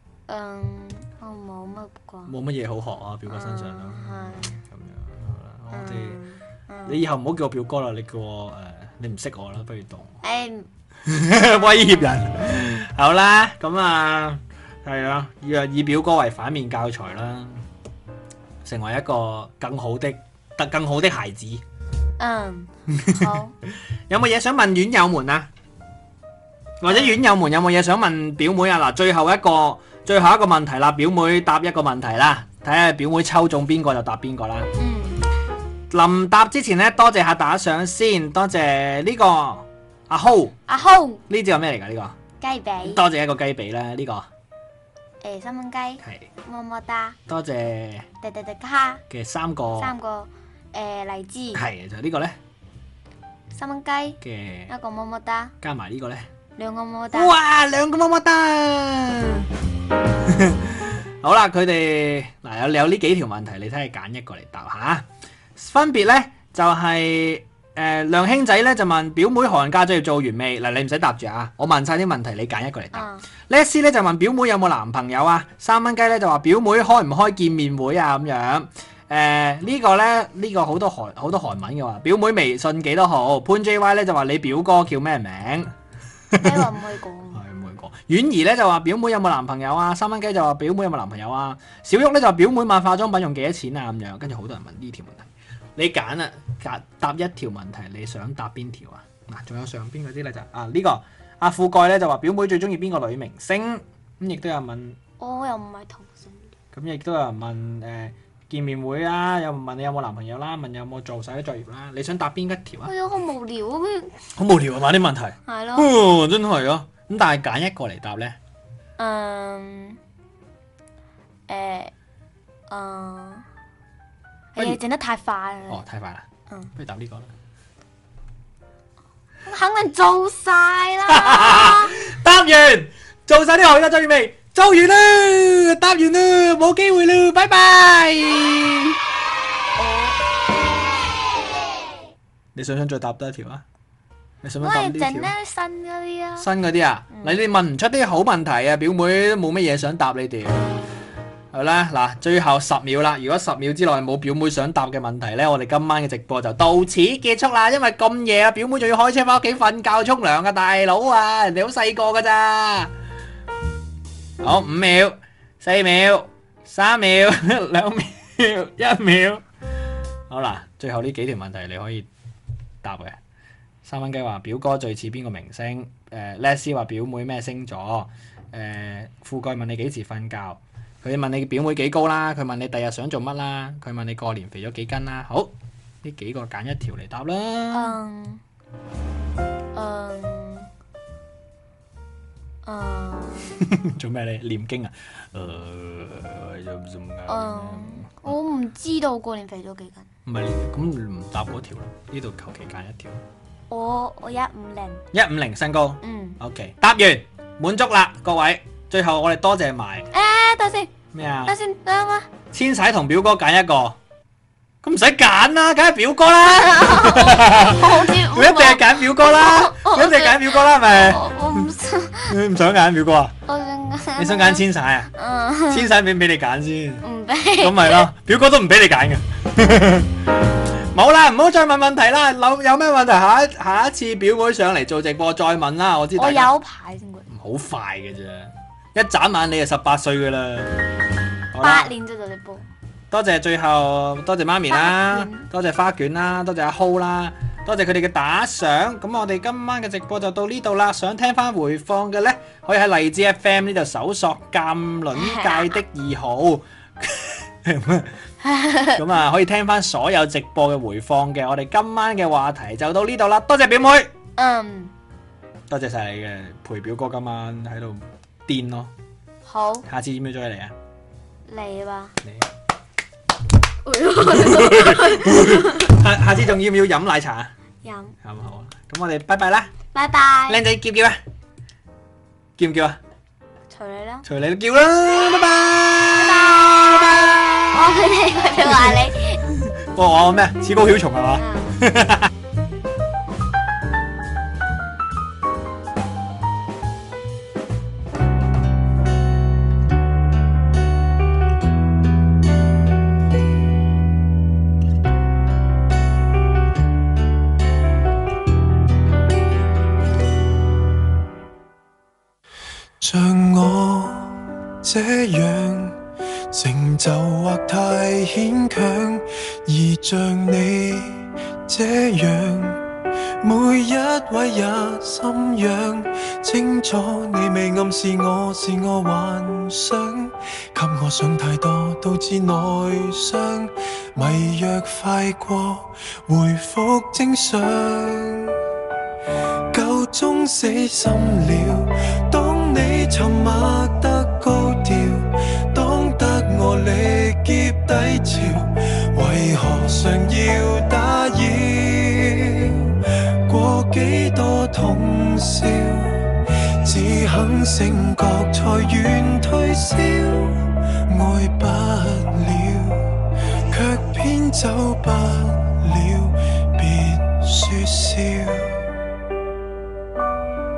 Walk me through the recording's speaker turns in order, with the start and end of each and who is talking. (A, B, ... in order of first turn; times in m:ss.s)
0:00.3-0:02.3 A
0:02.2-0:06.2 B
0:03.3-0:04.5 A
0:05.7-0:07.0 A
0:06.8-0:10.2 B
0:10.2-0:10.7 A
0:11.0-0:17.6 B
0:18.6-0:21.6 B
0:22.2-0:23.5 A
0:22.9-0:23.2 B
0:24.1-0:25.5 B
0:26.8-0:34.7 B
0:26.8-0:27.2 A
0:34.8-0:35.2 A
0:35.9-0:40.5 B
0:40.7-0:41.2 A
0:41.3-0:42.1 B
0:42.4-0:43.0 A
0:42.8-0:44.3 B
0:45.2-0:47.2 A
0:46.0-0:46.3 B
0:47.3-0:48.1 B
0:48.2-0:49.0 A
0:49.1-0:49.9 B
0:49.8-0:51.6 A
0:51.5-0:52.4 B
0:53.5-0:55.5 A
0:54.2-0:54.7 B
0:55.6-0:56.3 B
0:56.6-0:57.3 A
0:57.1-0:59.5 B
1:00.2-1:25.7 B
1:12.9-1:13.2 A
1:26.3-1:26.7 B
1:26.4-1:27.4 A
1:27.3-1:45.0 B
1:45.2-1:46.5 A
1:46.7-1:52.9 B
1:52.8-1:54.1 A
1:54.4-1:58.4 B
1:55.4-1:55.9 A
1:59.0-2:00.0 A
2:01.5-2:01.9 A
2:02.7-2:03.4 A
2:04.5-2:05.8 A
2:05.7-2:07.3 B
2:09.4-2:12.0 A
2:11.1-2:19.0 B
2:19.8-2:20.2 A
2:22.5-2:23.6 B
2:24.4-2:25.3 B
2:24.6-2:26.5 A
2:26.4-2:30.8 B
2:31.5-2:42.9 B
2:44.4-2:49.4 B
2:50.3-2:52.1 B
2:52.8-2:53.2 B
2:53.8-3:05.5 B
3:06.0-3:08.0 B
3:07.7-3:08.4 A
3:09.7-3:10.7 A
3:12.6-3:13.5 A
3:13.6-3:18.4 B
3:17.3-3:20.1 A
3:20.2-3:23.2 B
3:23.7-3:25.0 A
3:25.1-3:30.1 B
3:26.0-3:26.4 A
3:30.1-3:30.9 A
3:31.1-3:31.5 B
3:31.4-3:32.3 A
3:32.5-3:34.0 B
3:34.8-3:41.3 B
3:36.5-3:42.4 A
3:42.3-3:43.3 B
3:43.5-3:46.0 A
3:44.2-3:45.1 B
3:45.7-3:47.0 B
3:47.0-3:48.1 A
3:47.6-3:50.1 B
3:50.9-3:56.5 B
3:56.1-3:57.3 A
3:57.3-4:00.7 B
4:01.5-4:01.9 B
4:01.6-4:02.7 A
4:03.1-4:18.2 B
4:04.7-4:05.5 A
4:15.1-4:15.8 A
4:18.4-4:19.0 A
4:18.9-4:24.1 B
4:24.4-4:24.9 A
4:25.7-4:28.9 B
4:29.4-4:29.9 A
4:29.9-4:30.7 B
4:31.5-4:32.2 A
4:33.8-4:36.0 A
4:34.3-4:37.5 B
4:37.8-4:38.1 A
4:38.2-4:39.7 B
4:39.9-4:40.6 A
4:40.5-4:41.2 B
4:42.6-4:43.0 B
4:43.7-4:44.3 A
4:44.2-4:47.9 B
4:46.2-4:49.4 A
4:48.6-4:52.3 B
4:51.4-4:51.8 A
5:13.0-5:16.0 C
5:16.5-5:22.8 C
5:23.4-5:38.6 C
5:39.7-6:08.8 C